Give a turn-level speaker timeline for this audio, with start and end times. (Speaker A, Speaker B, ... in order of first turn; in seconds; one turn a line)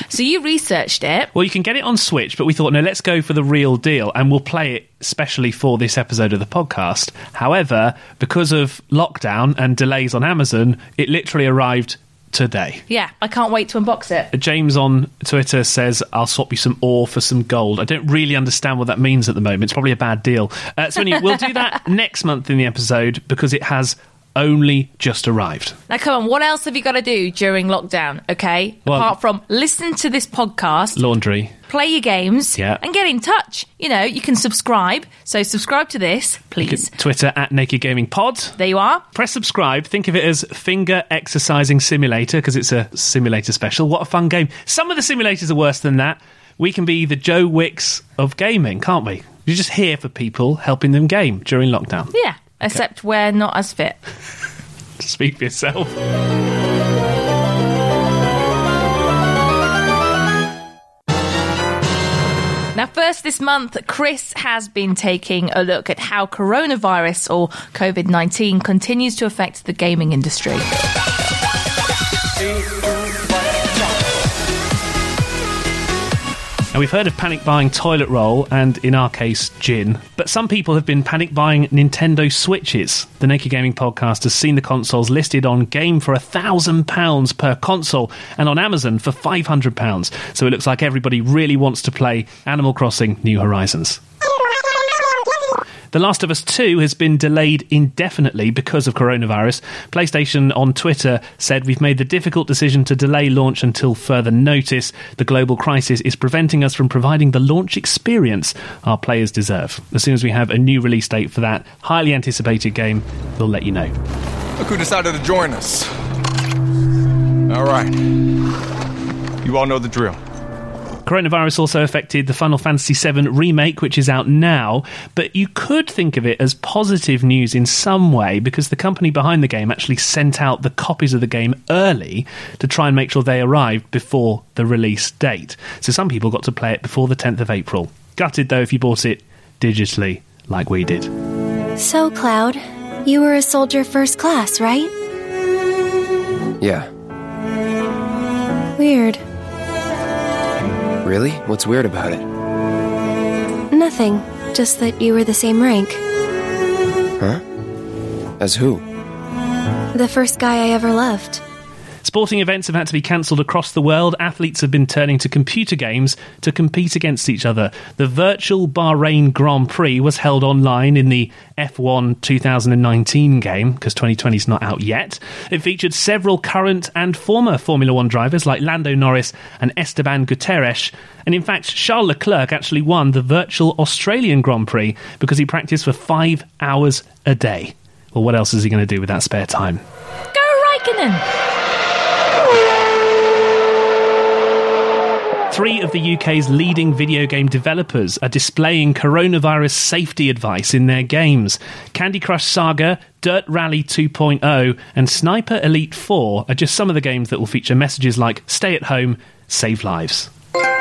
Speaker A: 0.1-1.3
Speaker B: 1.4-12.8
Speaker A: 12.9-14.3
Speaker B: 14.3-25.8
Speaker A: 25.9-31.0
Speaker B: 31.0-31.5
Speaker A: 31.7-36.9
Speaker B: 36.6-38.6
Speaker A: 38.6-39.0
Speaker B: 39.1-52.1
Speaker A: 52.1-54.0
Speaker B: 55.0-55.9
Speaker A: 62.8-70.7
Speaker B: 76.7-94.0
Speaker B: 95.9-113.9
Speaker C: 114.6-115.9
Speaker C: 117.5-118.1
Speaker C: 119.4-120.2
Speaker B: 121.1-141.1
Speaker D: 141.8-144.9
Speaker E: 146.6-146.9
Speaker D: 148.8-149.2
Speaker E: 151.0-152.2
Speaker D: 153.7-156.0
Speaker E: 158.4-158.8
Speaker D: 159.9-161.4
Speaker B: 162.0-189.8
Speaker A: 190.3-191.2
Speaker B: 195.5-210.3